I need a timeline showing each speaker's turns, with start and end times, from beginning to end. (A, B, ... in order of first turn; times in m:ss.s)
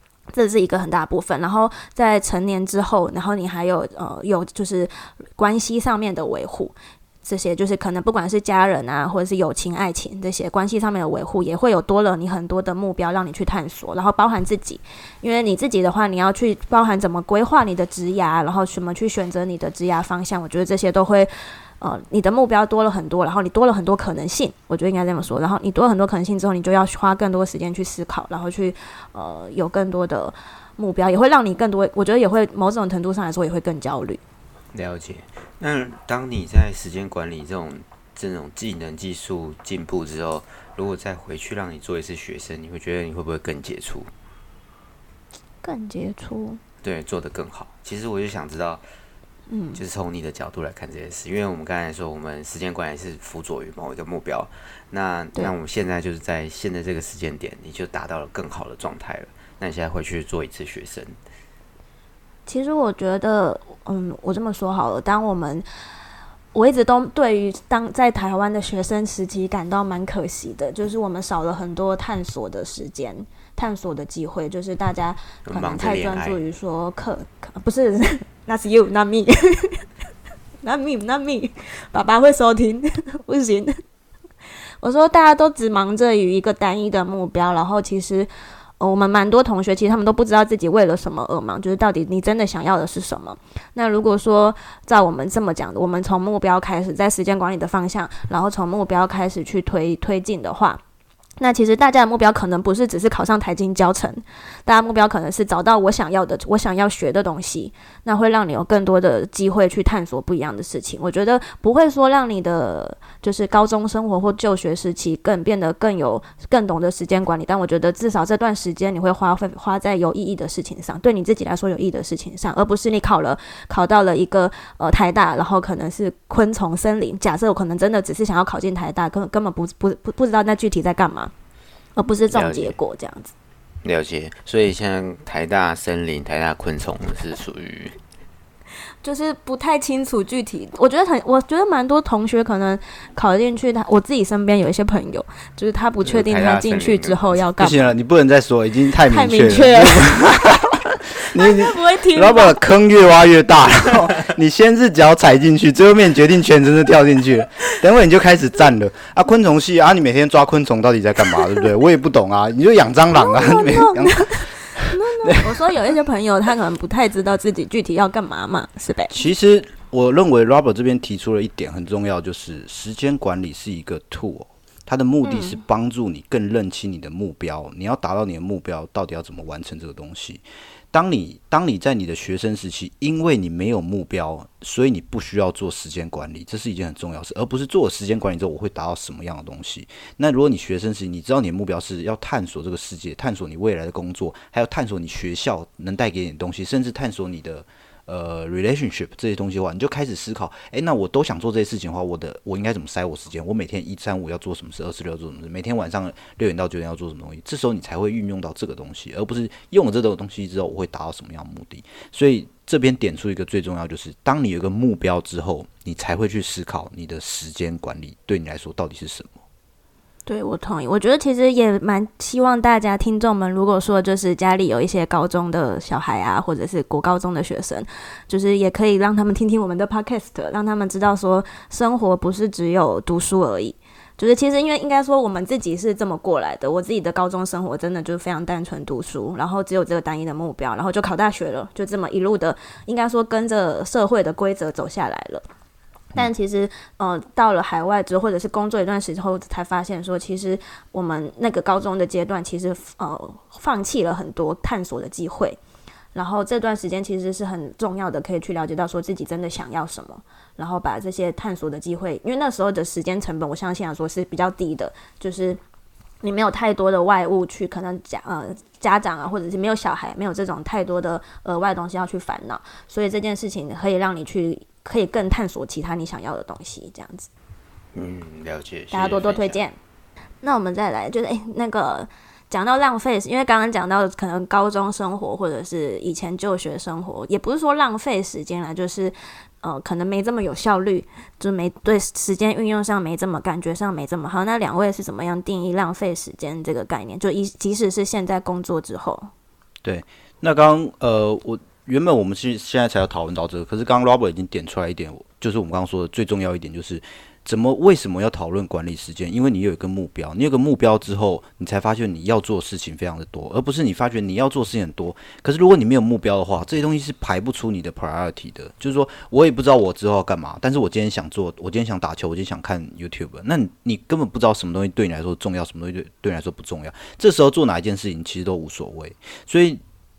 0:00.3-0:34.2 A
0:34.7-0:44.1 B
0:45.6-0:46.6 A
0:46.8-0:48.8 B
0:49.5-0:49.8 A
0:49.7-1:01.2 B
1:02.5-1:05.6 A
1:06.5-1:19.9 A
1:15.4-1:16.4 B
1:20.6-1:23.8 A
1:24.8-1:28.3 A
1:28.8-1:40.8 A
1:41.4-2:11.3 A
2:12.0-2:13.3 A
2:12.3-2:12.7 B
2:13.8-2:18.0 B
2:19.0-2:27.9 A
2:26.0-2:27.4 B
2:27.6-2:30.8 C
2:29.1-2:30.6 A
2:31.3-2:45.7 C
2:31.4-2:32.6 A
2:43.2-2:49.2 A
2:49.1-3:39.3 C
2:55.2-2:55.6 A
3:40.3-4:05.4 A
4:06.1-4:15.6 A
4:16.1-4:25.6 A
4:26.2-4:37.3 A
4:37.9-4:39.6 B
4:38.9-4:39.8 A
4:40.4-4:59.3 A
4:59.8-5:29.8 C